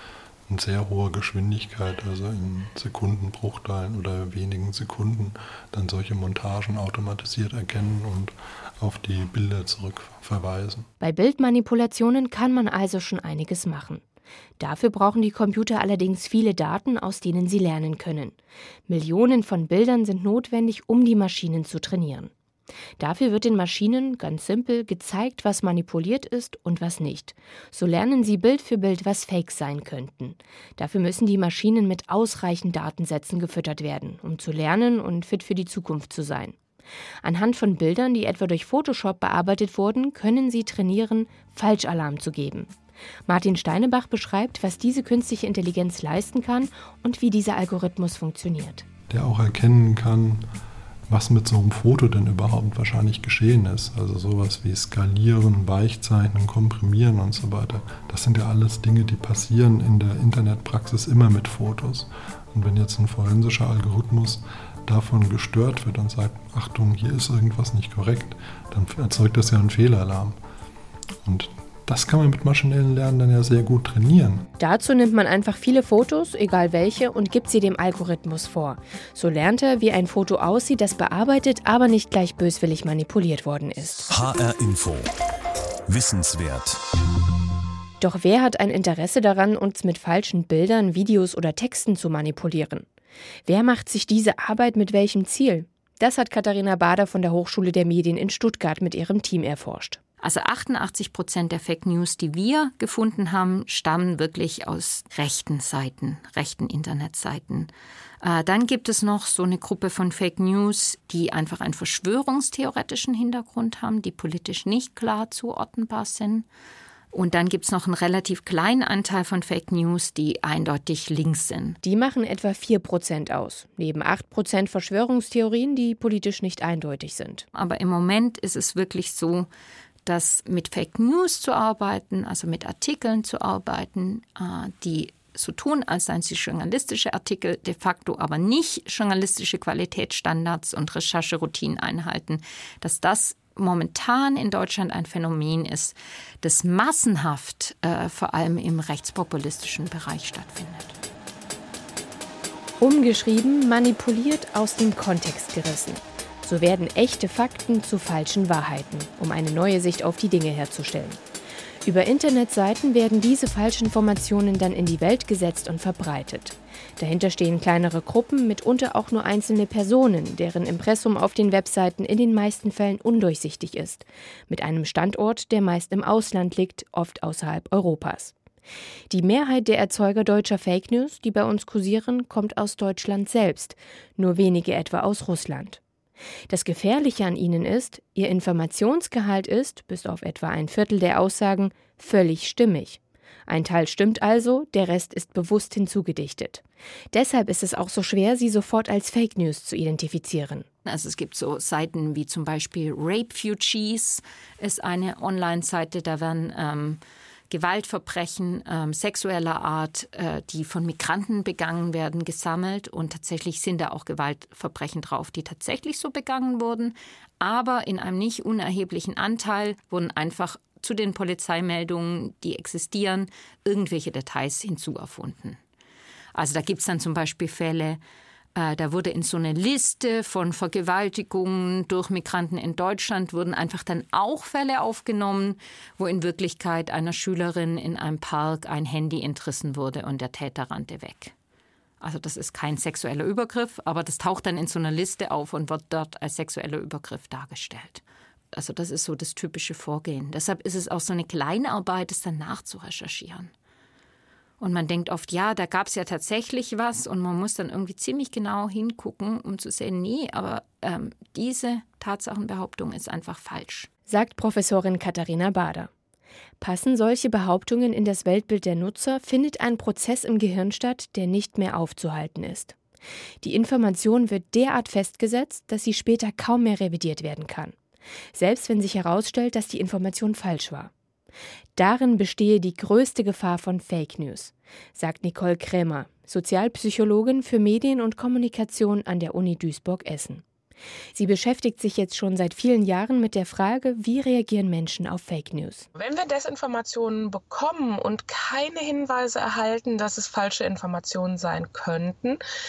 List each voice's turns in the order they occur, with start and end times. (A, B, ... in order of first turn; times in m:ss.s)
0:00.5-0:10.9 A
0:11.0-0:14.0 B
0:14.6-0:18.4 B
0:18.9-0:22.3 B
0:23.0-0:36.6 B
0:37.2-0:42.7 B
0:43.3-0:48.8 B
0:49.1-0:50.4 A
0:51.1-1:10.4 A
1:11.2-1:14.5 A
1:14.6-1:24.1 B
1:24.1-1:25.1 C
1:25.9-1:26.8 C
1:28.0-1:32.8 B
1:33.5-1:40.0 B
1:40.2-1:47.7 D
1:48.2-1:56.4 D
1:57.1-2:01.8 D
2:01.8-2:07.4 B
2:07.5-2:09.5 D
2:10.0-2:31.0 D
2:32.8-2:41.2 B
2:41.8-2:58.3 B
2:59.1-3:05.8 B
3:06.5-3:20.7 B
3:20.8-3:45.6 D
3:46.3-3:48.0 D
3:48.5-4:01.3 D
4:02.0-4:08.0 D
4:08.5-4:13.5 D
4:14.6-4:23.9 D
4:24.1-4:25.9 B
4:26.6-4:32.7 B
4:33.4-4:37.7 B
4:38.3-4:40.9 B
4:41.8-4:50.4 B
4:51.1-4:55.8 B
4:55.9-5:02.4 E